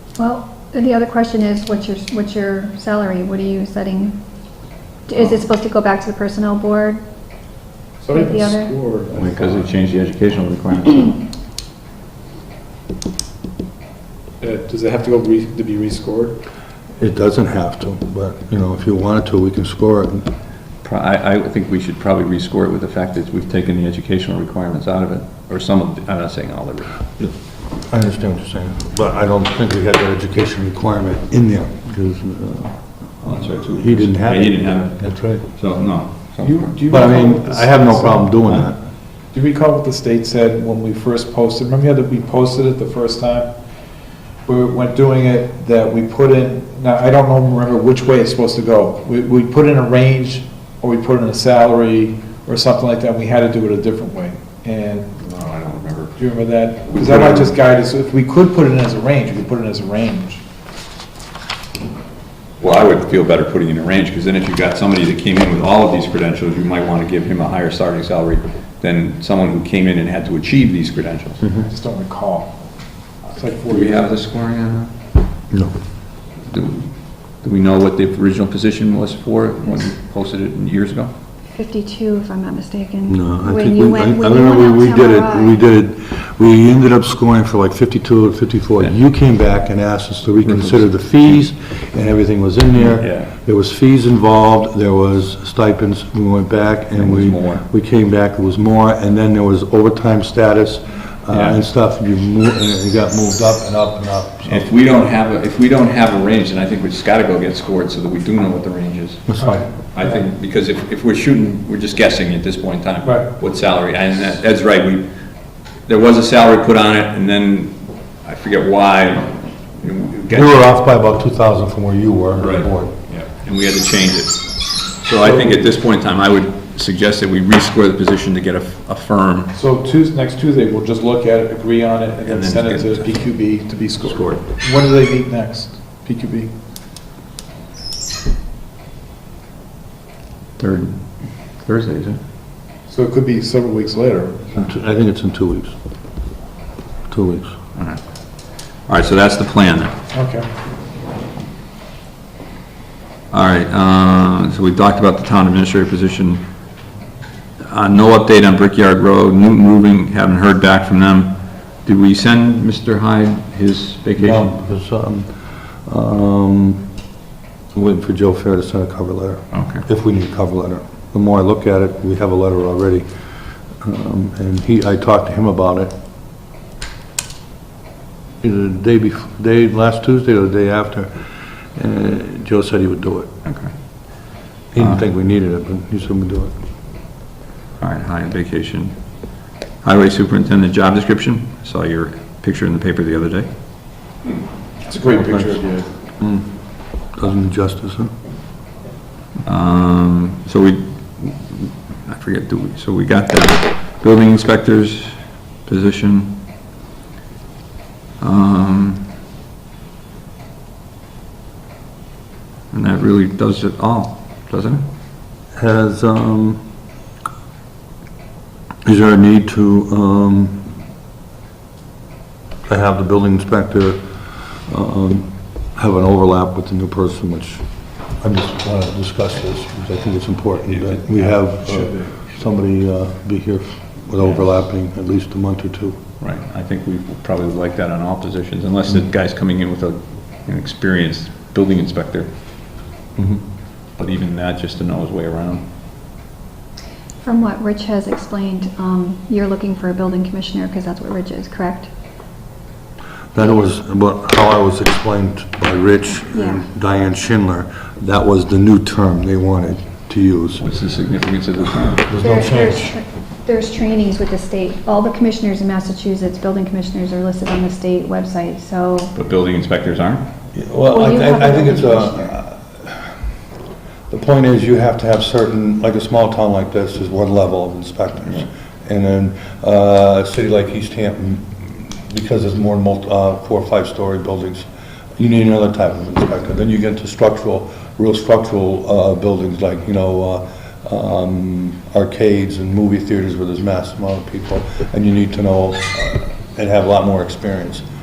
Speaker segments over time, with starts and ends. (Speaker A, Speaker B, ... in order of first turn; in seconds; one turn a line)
Speaker A: 0.2-4.2
Speaker A: 5.1-7.0
Speaker B: 8.0-9.7
Speaker A: 8.1-8.7
Speaker C: 9.1-11.2
Speaker B: 14.4-16.4
Speaker D: 17.0-20.3
Speaker C: 20.8-27.3
Speaker D: 27.9-35.5
Speaker C: 33.2-35.0
Speaker C: 35.5-37.0
Speaker B: 36.4-38.3
Speaker D: 36.9-38.8
Speaker B: 39.3-43.5
Speaker B: 44.5-55.1
Speaker C: 55.2-56.2
Speaker B: 56.2-60.4
Speaker C: 56.9-57.5
Speaker C: 62.6-71.4
Speaker D: 71.4-71.7
Speaker B: 71.6-72.6
Speaker B: 73.3-74.2
Speaker C: 73.5-74.9
Speaker D: 75.5-75.8
Speaker C: 76.4-81.1
Speaker A: 81.5-85.6
Speaker D: 83.1-104.7
Speaker C: 90.4-91.4
Speaker C: 92.9-93.3
Speaker C: 96.9-97.6
Speaker C: 101.3-101.6
Speaker C: 104.4-109.4
Speaker D: 109.3-109.6
Speaker B: 109.4-110.1
Speaker C: 109.9-115.1
Speaker B: 113.0-113.3
Speaker C: 115.8-120.6
Speaker D: 120.3-123.0
Speaker C: 122.3-129.5
Speaker B: 125.2-125.6
Speaker B: 129.5-136.5
Speaker C: 132.2-133.2
Speaker C: 134.0-134.4
Speaker C: 140.6-141.1
Speaker C: 141.6-142.2
Speaker B: 142.9-144.5
Speaker D: 144.5-145.7
Speaker D: 147.1-147.6
Speaker C: 147.8-148.0
Speaker C: 148.9-149.9
Speaker B: 150.1-150.5
Speaker C: 153.3-156.4
Speaker C: 157.6-164.5
Speaker D: 164.2-165.3
Speaker D: 165.8-166.9
Speaker D: 167.7-173.1
Speaker C: 169.5-169.8
Speaker D: 173.8-175.9
Speaker D: 178.4-181.1
Speaker D: 181.7-183.3
Speaker C: 183.4-183.7
Speaker D: 184.7-186.5
Speaker C: 187.8-188.9
Speaker C: 189.8-193.5
Speaker B: 194.8-195.9
Speaker D: 196.2-196.5
Speaker D: 197.1-198.1
Speaker C: 199.4-205.1
Speaker C: 205.7-206.4
Speaker C: 208.2-209.1
Speaker C: 212.7-214.8
Speaker D: 215.5-216.6
Speaker D: 218.8-220.7
Speaker D: 222.7-224.0
Speaker D: 224.7-227.6
Speaker D: 228.2-236.0
Speaker C: 230.6-231.3
Speaker B: 231.6-232.2
Speaker C: 234.2-234.4
Speaker C: 236.2-242.3
Speaker D: 243.2-243.4
Speaker C: 244.0-245.6
Speaker A: 247.2-251.9
Speaker D: 253.3-260.7
Speaker A: 256.3-256.6
Speaker C: 260.6-262.1
Speaker D: 262.0-262.9
Speaker A: 262.2-269.1
Speaker C: 269.1-270.2
Speaker D: 270.5-273.1
Speaker A: 270.9-272.4
Speaker D: 274.1-284.7
Speaker D: 285.2-297.8